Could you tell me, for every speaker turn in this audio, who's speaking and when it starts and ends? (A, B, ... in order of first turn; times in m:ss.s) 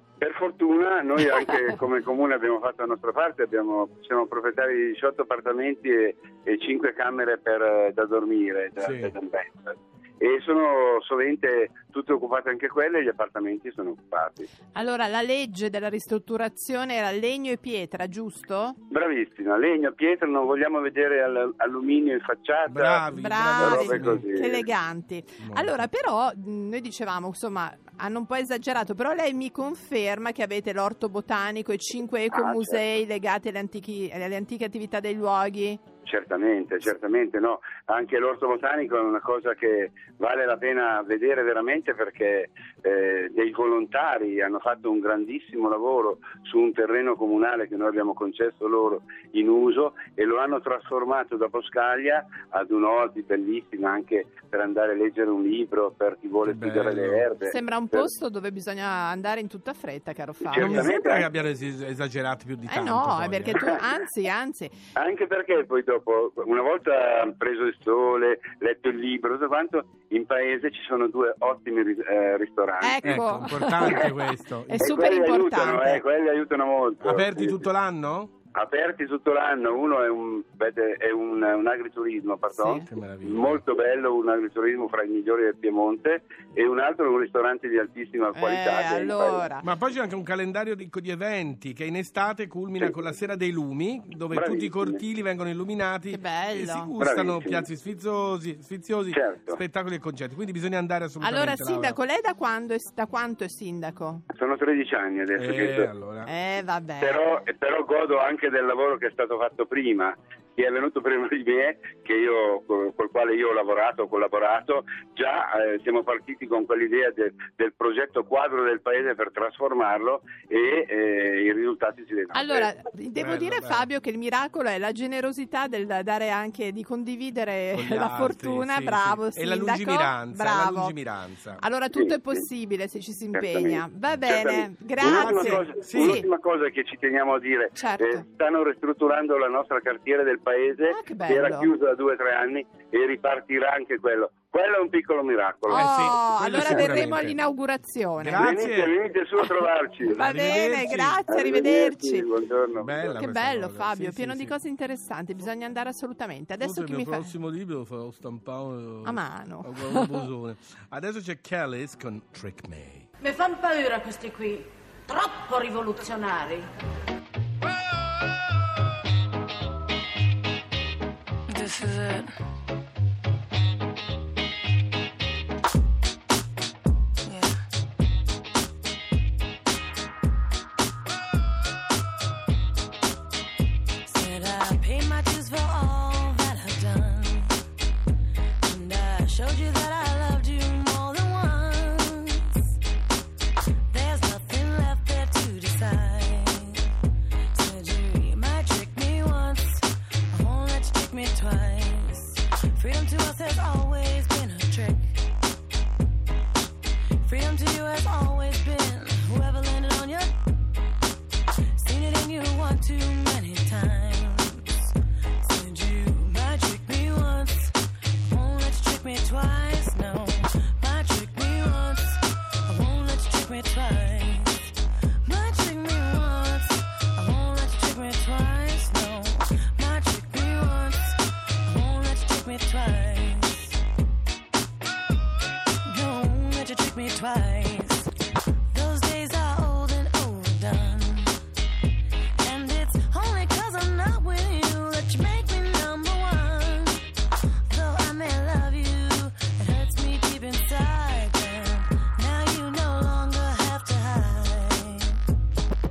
0:00.2-0:14.5 A
0:08.8-0:09.1 B
0:14.7-0:18.8 C
0:18.9-0:23.1 A
0:22.7-0:24.3 B
0:23.1-0:35.8 C
0:23.6-0:24.6 A
0:25.4-0:25.8 B
0:32.3-0:32.8 A
0:36.0-0:58.1 A
0:56.4-0:57.2 B
0:57.5-1:01.0 C
1:00.5-1:01.3 A
1:00.5-1:03.7 B
1:02.7-1:04.7 C
1:05.0-1:14.0 A
1:12.8-1:16.0 C
1:13.0-1:15.1 B
1:14.8-1:17.6 A
1:17.0-1:18.3 B
1:18.5-1:29.4 A
1:22.5-1:22.9 C
1:22.8-1:23.6 B
1:28.3-1:29.6 C
1:29.6-1:42.0 B
1:34.3-1:35.0 A
1:36.1-1:36.9 C
1:37.0-1:37.7 A
1:39.1-1:39.6 A
1:41.2-1:44.2 C
1:44.3-1:45.9 A
1:45.3-1:46.3 B
1:46.2-1:47.2 C
1:47.0-2:02.7 A
2:02.3-2:11.0 C
2:03.2-2:03.9 B
2:07.7-2:11.6 B
2:11.6-2:16.2 C
2:11.9-2:12.4 A
2:13.3-2:25.9 A
2:15.1-2:16.2 B
2:17.7-2:18.2 C
2:20.9-2:21.7 C
2:25.7-2:28.5 C
2:25.7-2:27.4 B
2:26.5-2:27.0 A
2:28.2-2:28.9 B
2:28.4-2:30.4 A
2:30.0-2:32.3 C
2:30.2-2:31.2 B
2:31.3-2:33.2 A
2:32.8-2:34.6 B
2:33.1-2:37.3 C
2:36.6-2:43.1 B
2:39.0-2:40.2 C
2:43.3-2:46.6 D
2:44.1-2:44.4 E
2:45.4-2:46.1 E
2:51.5-2:52.2 E
2:57.3-2:57.5 E
3:04.0-3:07.6 E
3:08.6-3:12.7 E
3:13.9-3:16.9 E
3:17.5-3:25.1 E
3:27.2-3:30.3 E
3:31.8-3:44.7 E
3:45.2-3:53.8 E
3:55.8-3:58.1 E
3:58.7-4:01.3 E
4:02.4-4:07.0 E
4:07.7-4:15.2 E